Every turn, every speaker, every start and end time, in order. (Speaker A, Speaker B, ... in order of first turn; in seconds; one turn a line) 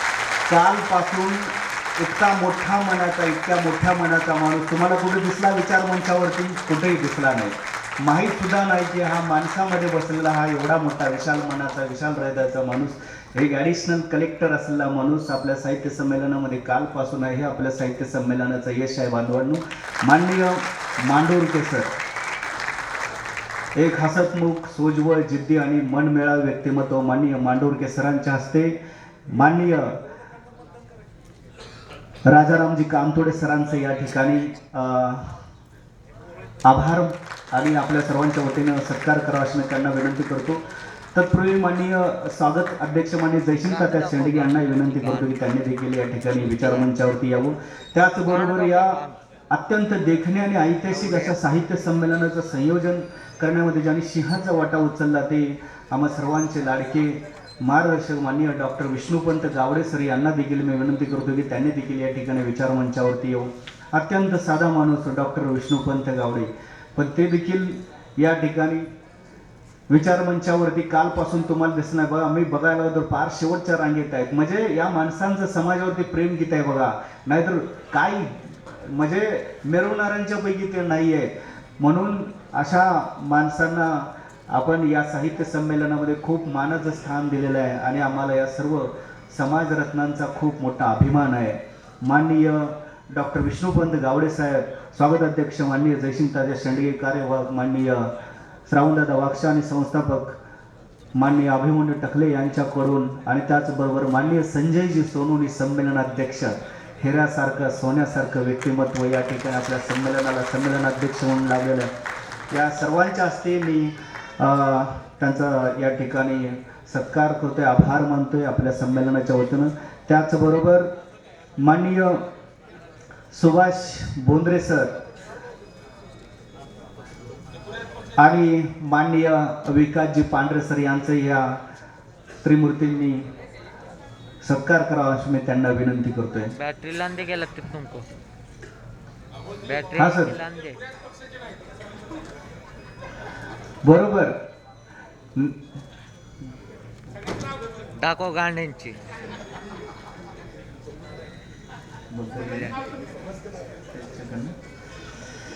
Speaker A: 0.5-21.9
Speaker A: 23.8-28.7
Speaker A: 29.3-30.0
Speaker A: 32.2-35.4
Speaker A: 36.7-40.6
Speaker A: 41.1-49.0
Speaker B: 43.6-45.5
Speaker B: 46.4-46.9
Speaker B: 48.2-49.2
Speaker A: 49.5-68.9
Speaker B: 50.9-51.4
Speaker A: 69.9-98.1
Speaker A: 98.7-100.4
Speaker A: 101.2-111.9
Speaker A: 112.5-120.9
Speaker A: 121.6-122.2
Speaker A: 123.3-124.9
Speaker A: 128.2-131.6
Speaker A: 132.4-133.3
Speaker A: 134.4-136.5
Speaker B: 136.5-138.1
Speaker B: 139.6-140.8
Speaker A: 140.0-140.3
Speaker A: 143.8-144.4
Speaker B: 148.0-149.0
Speaker A: 152.1-152.8
Speaker A: 153.9-154.5